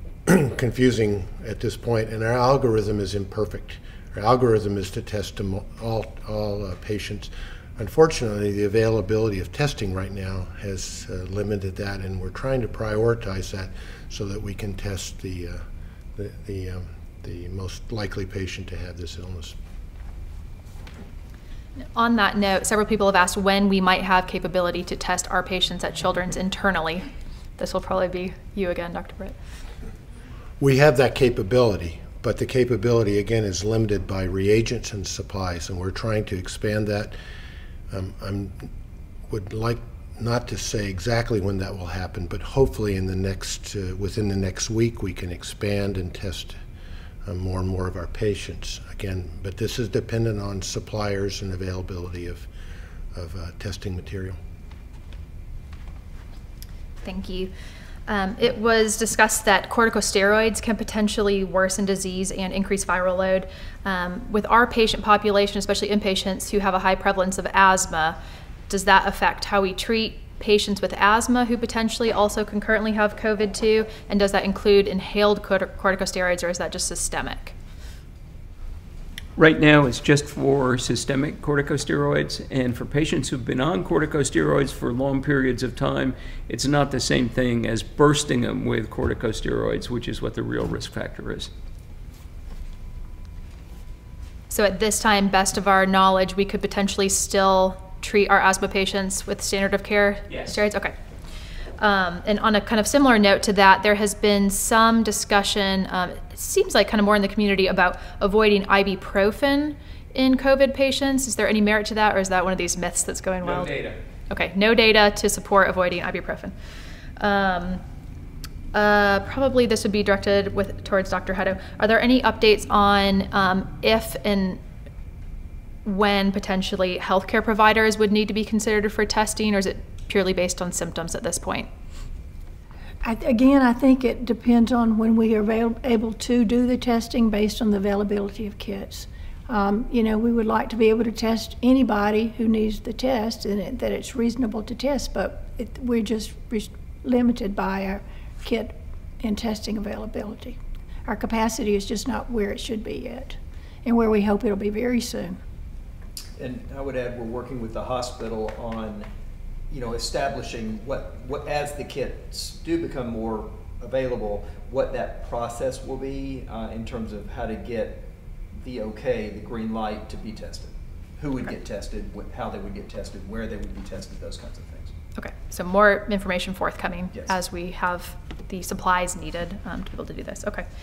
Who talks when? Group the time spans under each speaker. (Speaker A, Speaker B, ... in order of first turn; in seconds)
Speaker A: 0.2-15.6, 16.1-19.6, 30.6-37.1, 37.9-38.6, 39.3-46.6, 47.2-52.5, 53.1-54.4
Speaker B: 21.9-29.4, 57.0-57.5, 58.1-68.2, 68.7-77.5, 94.5-100.9, 101.8-113.7, 114.3-116.5, 117.2-117.8, 118.7-124.6, 125.8-131.7, 175.2-180.7
Speaker C: 79.4-91.5, 113.4-114.0
Speaker D: 133.0-155.4
Speaker E: 156.4-159.1, 159.7-168.1, 168.6-174.9